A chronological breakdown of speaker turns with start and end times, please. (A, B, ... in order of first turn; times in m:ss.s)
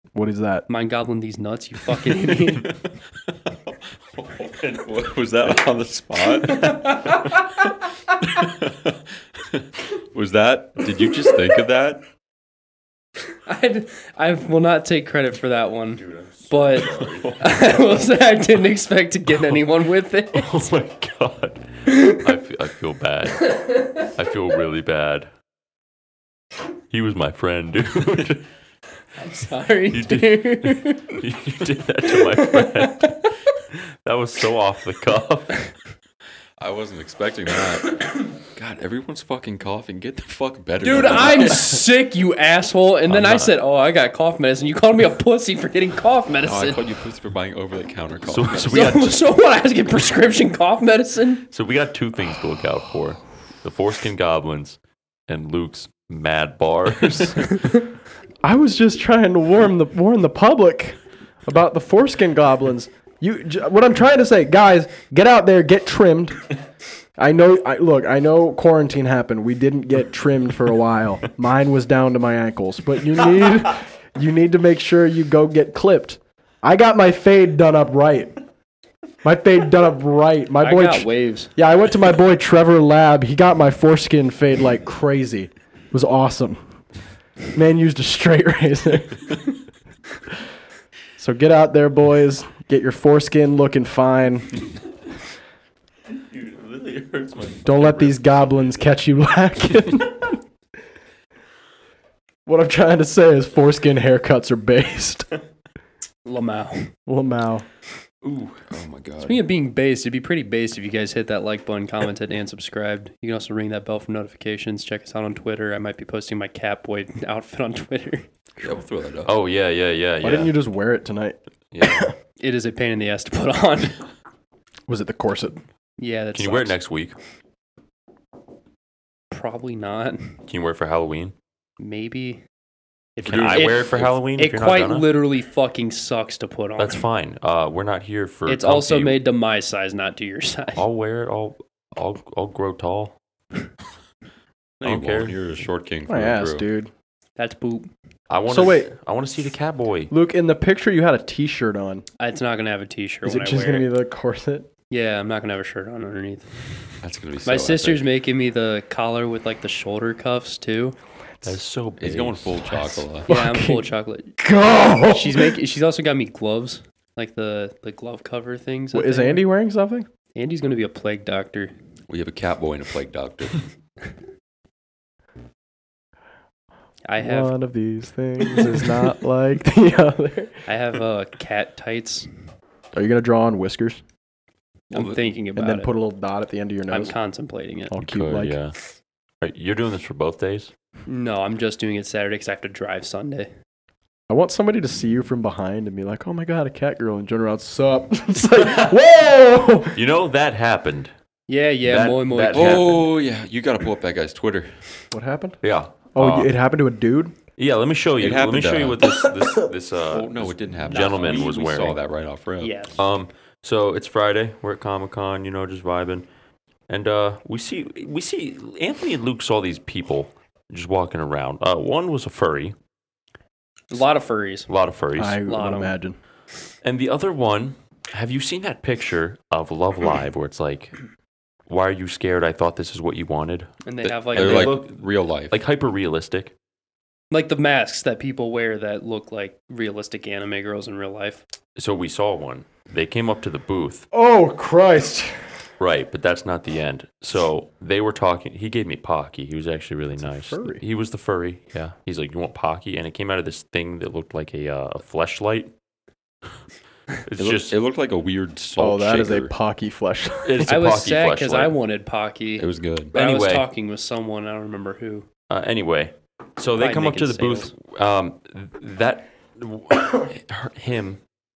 0:00.1-0:00.6 A
0:00.7-0:02.7 B
0:02.5-0:02.9 C
0:03.5-0:07.6 C
0:06.4-0:07.6 B
0:08.2-0:12.0 C
0:13.4-0:20.7 B
0:16.0-0:17.9 D
0:20.3-0:25.3 D
0:21.8-0:22.2 B
0:23.4-0:24.1 B
0:26.9-0:28.5 D
0:29.2-0:31.2 B
0:29.9-0:35.7 D
0:32.1-0:33.3 B
0:36.6-0:41.8 C
0:40.8-0:46.8 B
0:43.1-0:43.5 D
0:46.4-0:48.9 C
0:48.2-0:49.2 D
0:48.7-0:51.4 B
0:51.5-0:57.7 D
0:58.4-1:06.4 A
1:07.2-1:18.4 A
1:19.2-1:26.6 A
1:20.6-1:21.5 B
1:27.5-1:29.4 A
1:31.2-1:34.6 A
1:36.3-1:38.8 D
1:37.6-1:40.4 A
1:42.4-1:45.3 A
1:46.2-1:46.9 B
1:47.1-1:47.6 A
1:48.2-1:48.5 D
1:48.6-1:49.4 C
1:49.2-1:58.3 B
1:58.6-1:59.3 C
1:59.2-2:00.6 D
2:00.2-2:02.1 A
2:01.8-2:02.1 C
2:02.4-2:04.0 B
2:04.9-2:05.6 A
2:06.0-2:06.8 B
2:06.3-2:07.2 D
2:09.3-2:10.4 B
2:10.5-2:11.3 D
2:11.8-2:12.4 B
2:13.2-2:17.0 B
2:13.2-2:15.1 D
2:13.2-2:14.1 C
2:16.8-2:19.2 D
2:18.5-2:20.8 B
2:20.8-2:23.2 D
2:24.8-2:26.7 C
2:24.8-2:25.4 D
2:26.1-2:26.9 A
2:27.4-2:27.9 B
2:28.3-2:30.1 D
2:28.5-2:28.9 A
2:30.1-2:32.0 A
2:32.2-2:33.9 B
2:33.2-2:34.7 A
2:34.9-2:36.5 B
2:37.0-2:38.0 C
2:37.4-2:41.0 B
2:41.4-2:43.0 D
2:42.0-2:43.3 C
2:43.3-2:44.3 B
2:43.3-2:45.6 A
2:45.0-2:49.4 B
2:48.9-2:50.1 A
2:50.3-2:51.7 B
2:52.1-2:53.7 C
2:57.0-2:57.5 B
2:57.2-3:00.6 A
2:58.4-2:58.9 B
3:00.7-3:02.3 B
3:02.9-3:04.0 A
3:04.9-3:05.9 B
3:04.9-3:05.2 C
3:05.6-3:07.1 A
3:06.9-3:07.9 B
3:07.9-3:08.6 A
3:08.0-3:08.8 D
3:09.4-3:10.7 D
3:11.1-3:13.5 B
3:14.3-3:20.0 A
3:19.9-3:21.1 D
3:21.5-3:23.0 B
3:21.8-3:23.1 D
3:22.5-3:24.8 C
3:25.1-3:25.6 A
3:25.6-3:26.5 D
3:26.1-3:27.4 A
3:27.6-3:32.0 D
3:28.2-3:29.1 C
3:30.1-3:32.9 C
3:30.9-3:31.5 B
3:32.6-3:33.0 B
3:33.0-3:36.2 D
3:36.9-3:42.8 D
3:43.9-3:44.7 B
3:44.7-3:45.4 D
3:45.2-3:46.2 A
3:45.4-3:45.9 B
3:46.8-3:51.0 D
3:51.7-3:53.7 D
3:53.8-3:54.8 B
3:54.0-3:55.6 C
3:54.3-3:56.5 D
3:57.3-4:01.4 B
4:01.8-4:04.0 D
4:04.1-4:05.5 A
4:05.8-4:15.7 D
4:10.2-4:10.8 A
4:17.2-4:17.8 D
4:17.4-4:19.5 C
4:18.8-4:20.7 A
4:20.4-4:21.7 D
4:20.7-4:25.3 B
4:22.6-4:23.1 C
4:23.1-4:23.7 D
4:25.5-4:31.2 D
4:26.8-4:27.7 B